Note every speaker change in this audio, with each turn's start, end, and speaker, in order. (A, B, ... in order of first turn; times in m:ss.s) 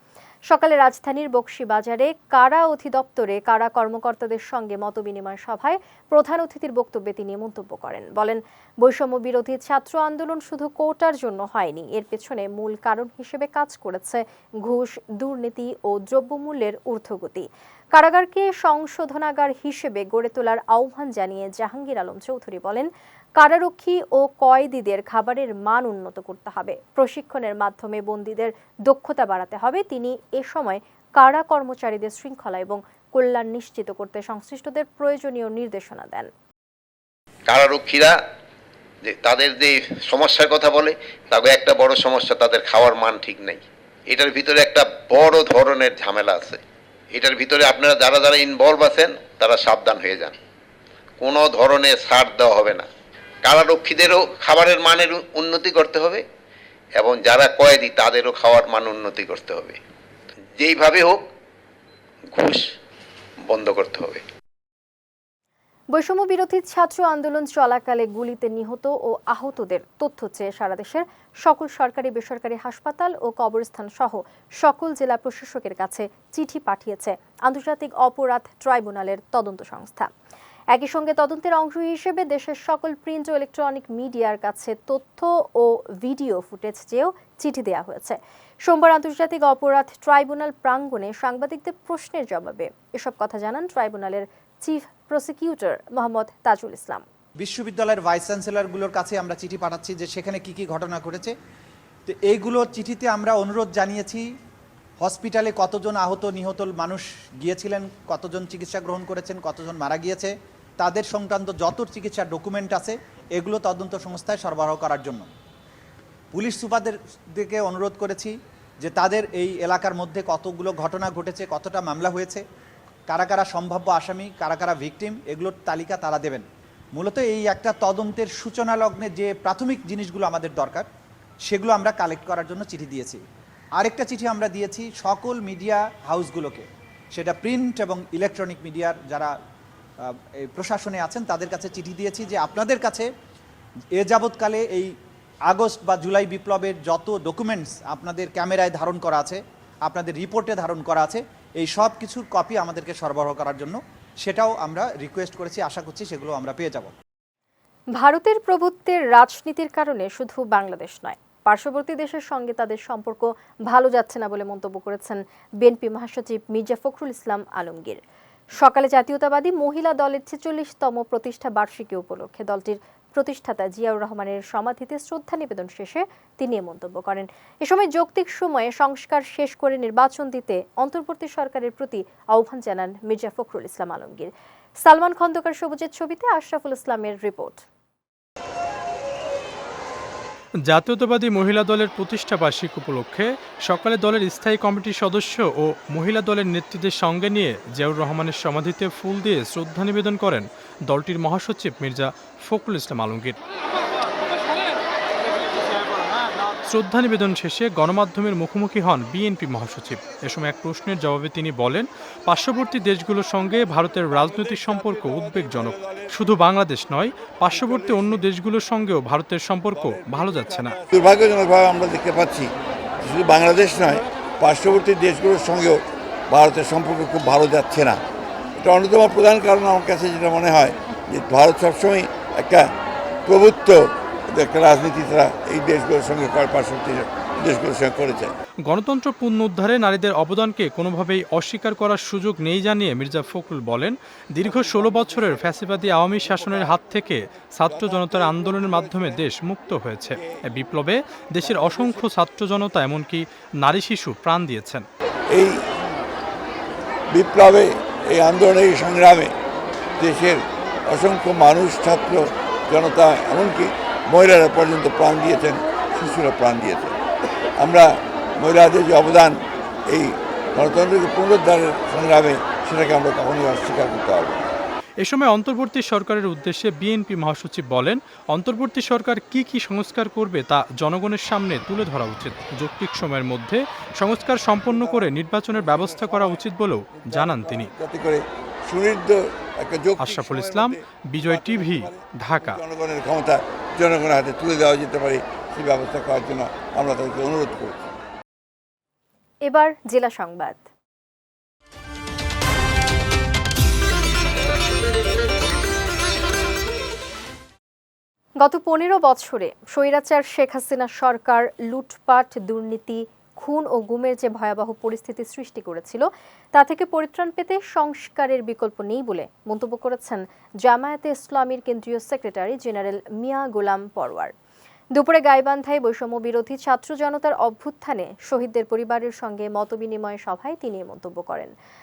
0:00.5-0:36.3 A
0:37.5-0:38.2 B
0:39.1-0:46.6 B
0:47.1-0:50.4 B
0:51.2-0:52.9 B
0:53.4-0:56.2 B
0:57.0-0:59.8 B
1:00.6-1:01.2 B
1:02.4-1:02.7 B
1:03.5-1:04.2 B
1:05.9-1:20.1 A
1:20.7-1:37.0 A
1:37.4-1:41.4 C
1:42.1-1:44.3 C
1:45.0-1:55.3 C
1:56.3-2:02.4 C
2:03.1-2:10.9 C
2:11.5-2:13.2 C
2:13.8-2:19.3 C
2:20.1-2:23.1 C
2:24.0-2:24.9 C
2:25.5-2:36.9 C
2:38.0-2:48.0 A
2:48.6-3:07.6 A
3:10.7-3:23.4 D
3:26.7-3:40.8 D
3:40.9-3:48.0 E
3:48.6-3:52.7 E
3:53.3-3:58.3 E
3:58.6-4:14.8 D
4:17.1-4:19.3 E
4:20.0-4:27.0 E
4:27.6-4:27.9 E
4:28.4-4:29.4 E
4:29.9-4:34.5 E
4:35.0-4:47.7 D
4:44.7-4:45.1 E
4:45.7-4:46.4 E
4:47.0-4:57.9 E
4:50.0-4:52.6 D
4:59.5-5:00.7 A
5:08.4-5:24.3 A
5:25.0-5:31.5 A